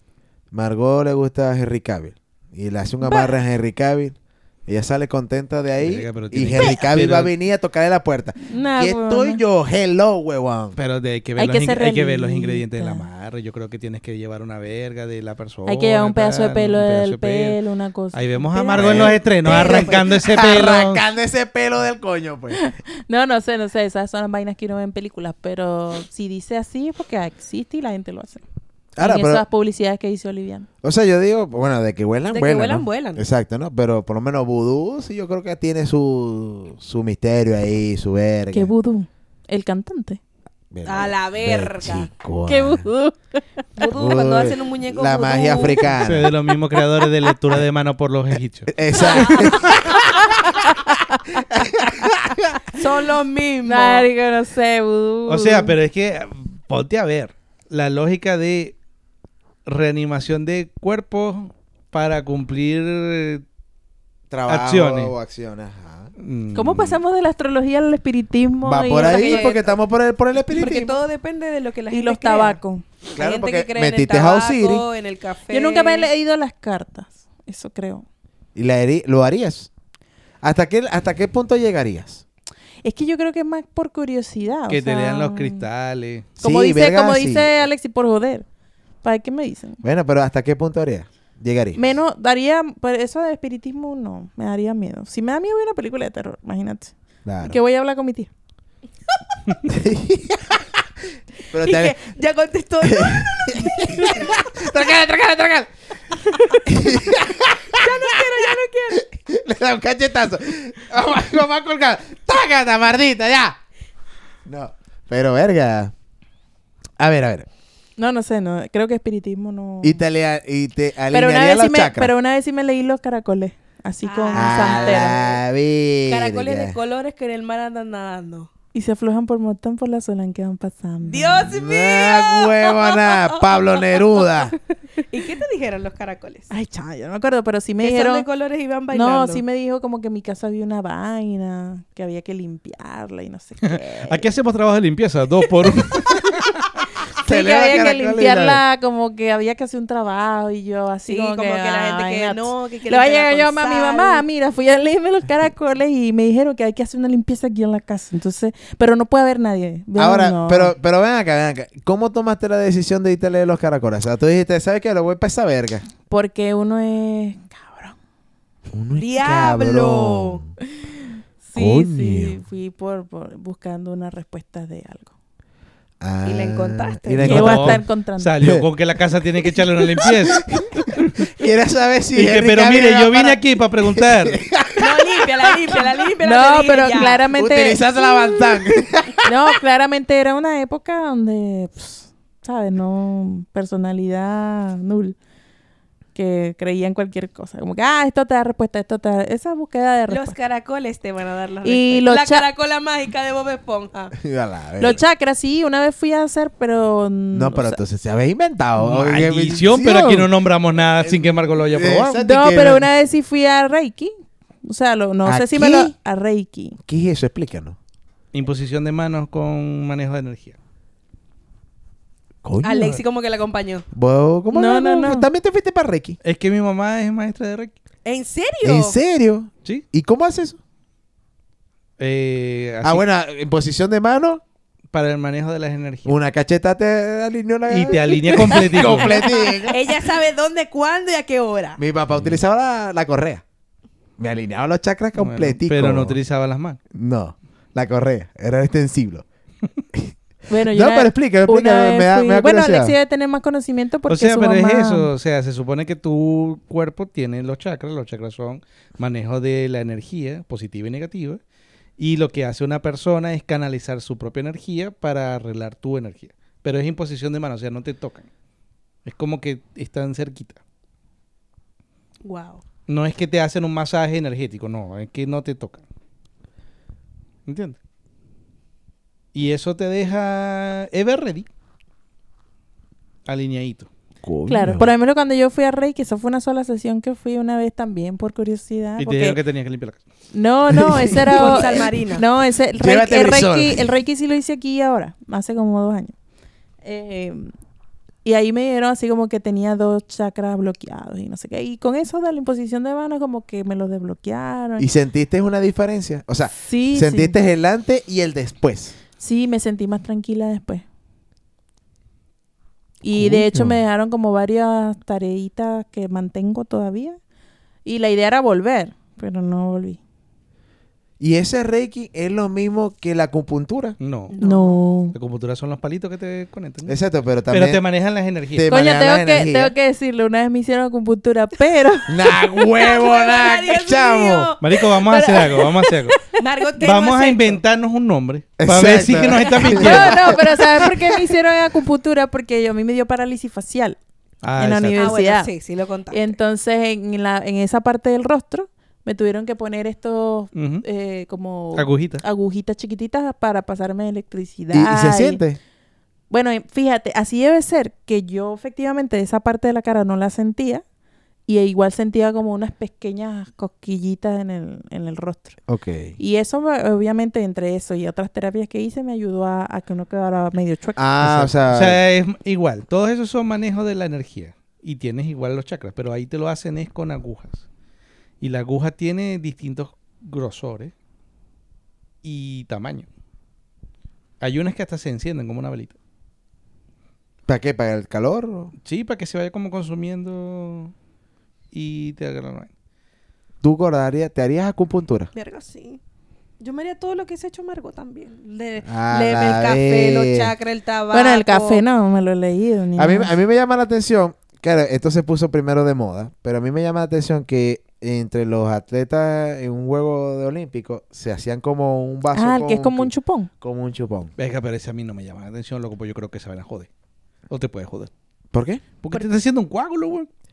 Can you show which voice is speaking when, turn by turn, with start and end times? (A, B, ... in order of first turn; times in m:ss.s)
0:00.5-0:10.8 A
0:03.0-0:03.3 B
0:05.8-0:07.3 C
0:08.5-0:09.4 B
0:10.8-0:17.6 C
0:11.4-0:13.1 B
0:15.6-0:19.8 B
0:18.1-0:21.0 C
0:18.8-0:22.6 A
0:19.5-0:19.8 D
0:22.6-0:28.4 B
0:29.0-0:29.4 A
0:29.0-0:30.7 B
0:30.8-0:38.7 A
0:32.3-0:33.2 D
0:38.5-0:40.2 B
0:40.7-0:42.9 A
0:40.8-0:42.1 D
0:42.4-0:43.8 B
0:43.8-0:45.9 D
0:43.9-0:46.3 A
0:46.0-0:48.7 C
0:48.7-0:50.0 A
0:49.2-0:51.5 B
0:51.5-0:52.5 A
0:52.7-0:54.1 D
0:53.6-0:55.7 B
0:55.3-0:58.8 C
0:59.6-1:03.4 C
1:04.3-1:06.1 A
1:04.5-1:05.1 C
1:06.2-1:07.0 C
1:06.5-1:09.5 B
1:08.6-1:11.0 A
1:09.0-1:09.7 D
1:10.5-1:12.6 D
1:11.9-1:12.8 B
1:13.1-1:14.8 A
1:13.2-1:16.1 D
1:15.5-1:18.0 B
1:18.5-1:19.7 A
1:20.4-1:22.2 A
1:22.8-1:25.7 B
1:24.7-1:26.3 C
1:26.4-1:28.4 B
1:26.4-1:27.5 A
1:29.0-1:29.8 B
1:29.8-1:31.8 A
1:31.7-1:38.3 B
1:37.2-1:37.6 A
1:39.6-1:40.8 A
1:41.5-1:42.0 A
1:41.5-1:44.5 D
1:42.8-1:45.7 A
1:46.6-1:53.6 A
1:47.7-1:49.1 D
1:54.4-1:55.9 A
1:57.0-1:57.5 A
1:58.0-2:00.0 B
1:59.8-2:02.1 A
2:01.1-2:05.2 B
2:04.0-2:05.4 D
2:04.3-2:06.7 A
2:06.1-2:08.5 D
2:08.7-2:11.5 B
2:11.0-2:13.7 D
2:11.5-2:14.6 A
2:15.1-2:16.5 D
2:16.5-2:18.2 B
2:17.8-2:19.4 D
2:18.9-2:24.2 B
2:23.6-2:26.6 C
2:27.2-2:28.6 A
2:27.2-2:40.7 B
2:31.1-2:34.2 D
2:40.0-2:45.8 A
2:46.1-2:48.0 B
2:48.7-2:50.5 A
2:49.0-2:50.4 D
2:51.4-2:55.1 B
2:51.5-2:52.4 A
2:56.0-2:57.8 A
2:56.2-2:57.5 D
2:57.2-3:00.5 C
2:57.2-2:58.3 B
2:58.4-2:58.6 A
2:59.5-3:05.8 A
3:02.1-3:04.4 C
3:04.8-3:07.2 D
3:06.2-3:07.8 B
3:07.3-3:09.3 A
3:09.2-3:15.2 B
3:16.1-3:20.4 B
3:20.1-3:24.1 D
3:21.6-3:22.4 B
3:24.2-3:25.0 A
3:24.8-3:27.8 B
3:27.3-3:32.9 A
3:28.8-3:32.2 C
3:32.2-3:34.1 B
3:34.6-3:36.8 B
3:35.2-3:35.9 A
3:36.8-3:37.8 A
3:38.3-3:40.5 C
3:42.4-3:43.0 A
3:42.6-3:43.8 D
3:43.9-3:46.2 A
3:44.5-3:45.3 B
3:46.2-3:47.7 C
3:48.0-3:49.0 D
3:48.6-3:50.6 A
3:52.0-3:53.0 C
3:52.8-3:54.4 A
3:54.9-3:56.2 C
3:56.0-3:59.8 A
3:57.7-3:59.3 C
3:59.1-4:01.8 D
4:01.8-4:03.4 A
4:02.1-4:02.4 C
4:04.2-4:06.2 A
4:05.1-4:06.8 C
4:06.9-4:09.2 A
4:09.9-4:13.0 A
4:10.5-4:15.1 B
4:14.1-4:21.4 C
4:22.0-4:28.3 C
4:29.0-4:30.6 C
4:32.2-4:32.6 D
4:32.9-4:35.8 C
4:37.4-4:37.8 C
4:39.3-4:41.5 C
4:43.2-4:43.9 C
4:44.2-4:44.9 A
4:44.5-4:49.4 B
4:49.0-4:50.0 C
4:50.3-4:56.1 B
4:50.7-4:51.7 A
4:51.3-4:52.2 D
4:52.8-4:53.9 A
4:56.8-4:57.5 B
4:58.2-5:04.9 B
5:04.8-5:09.0 A
5:06.5-5:07.4 B
5:09.2-5:10.8 B
5:13.0-5:17.2 B
5:13.1-5:13.8 A
5:17.8-5:20.0 B
5:21.2-5:24.0 A
5:24.0-5:24.3 C
5:24.3-5:24.8 D
5:24.4-5:25.1 B
5:25.1-5:26.9 C
5:26.8-5:27.8 A
5:27.5-5:28.7 C
5:28.5-5:29.7 A
5:28.7-5:32.2 B
5:32.1-5:34.6 A
5:32.6-5:34.8 D
5:34.6-5:36.2 C
5:35.0-5:36.4 B
5:36.3-5:37.6 D
5:36.8-5:40.4 C
5:38.6-5:41.2 A
5:39.6-5:44.0 B
5:44.4-5:45.1 C
5:44.6-5:45.5 B
5:45.0-5:46.3 D
5:46.1-5:55.4 B
5:50.5-5:50.8 C
5:51.7-5:52.2 C
5:54.7-5:55.6 A
5:56.3-6:00.8 B
6:01.5-6:05.6 B
6:05.7-6:06.2 A
6:06.2-6:11.0 B
6:11.0-6:12.0 A
6:11.2-6:17.6 C
6:18.4-6:20.9 C
6:22.2-6:23.1 C
6:24.4-6:25.9 C
6:27.5-6:28.7 A
6:28.8-6:30.9 C
6:31.7-6:32.7 C
6:33.6-6:35.3 A
6:35.3-6:36.0 D
6:36.6-6:41.8 D
6:38.9-6:40.5 A
6:41.1-6:43.4 B
6:43.0-6:54.3 A
6:52.3-6:53.5 B
6:54.4-6:56.9 C
6:57.5-6:58.1 C
6:58.5-6:58.8 A
6:59.0-7:00.3 C